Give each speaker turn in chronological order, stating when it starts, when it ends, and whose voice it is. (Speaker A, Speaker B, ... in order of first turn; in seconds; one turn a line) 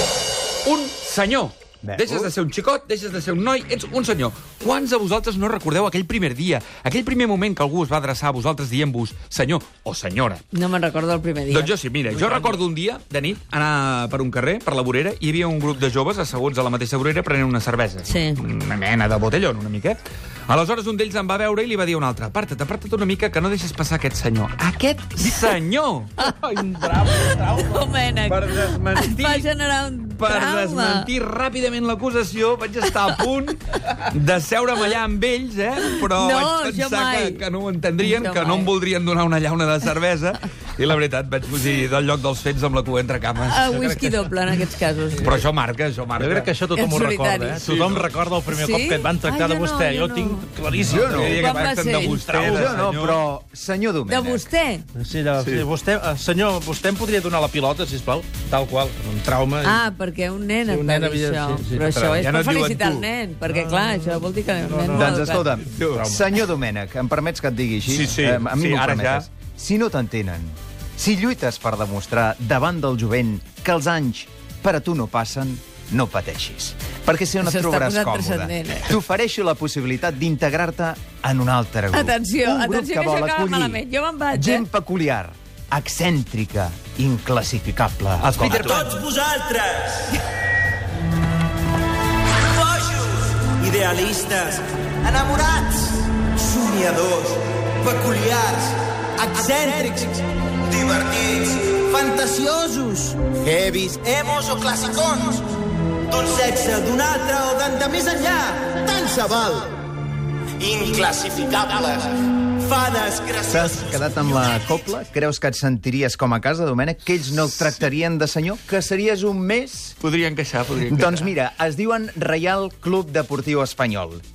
Speaker A: 0.7-10.4
Speaker B: 1.8-2.3
Speaker C: 10.5-11.7
Speaker A: 11.5-26.1
Speaker D: 12.2-12.5
Speaker C: 18.1-18.4
Speaker C: 26.2-31.1
Speaker D: 26.4-27.8
Speaker A: 28.3-29.5
Speaker A: 30.2-44.3
Speaker C: 35.9-37.4
Speaker C: 38.0-38.7
Speaker C: 43.5-45.4
Speaker A: 45.2-46.5
Speaker D: 46.2-51.5
Speaker C: 46.8-47.6
Speaker A: 47.6-48.1
Speaker C: 48.5-50.5
Speaker B: 50.8-51.4
Speaker A: 50.9-53.2
Speaker C: 51.3-52.2
Speaker D: 52.2-52.8
Speaker B: 52.4-54.5
Speaker C: 54.1-54.9
Speaker D: 55.0-59.8
Speaker C: 59.6-65.5
Speaker D: 60.7-62.3
Speaker A: 62.2-63.1
Speaker D: 63.5-66.3
Speaker B: 64.9-83.8
Speaker A: 65.7-66.0
Speaker A: 67.9-69.3
Speaker C: 77.4-79.0
Speaker C: 81.9-84.7
Speaker B: 84.3-88.7
Speaker A: 88.2-89.0
Speaker E: 88.4-90.1
Speaker E: 92.5-105.5
Speaker B: 99.3-99.7
Speaker B: 102.1-102.5
Speaker B: 103.6-105.0
Speaker E: 106.1-109.7
Speaker B: 106.3-108.2
Speaker B: 109.0-109.5
Speaker E: 110.6-112.1
Speaker E: 112.6-114.0
Speaker B: 113.5-120.0
Speaker A: 120.0-121.3
Speaker B: 120.9-124.2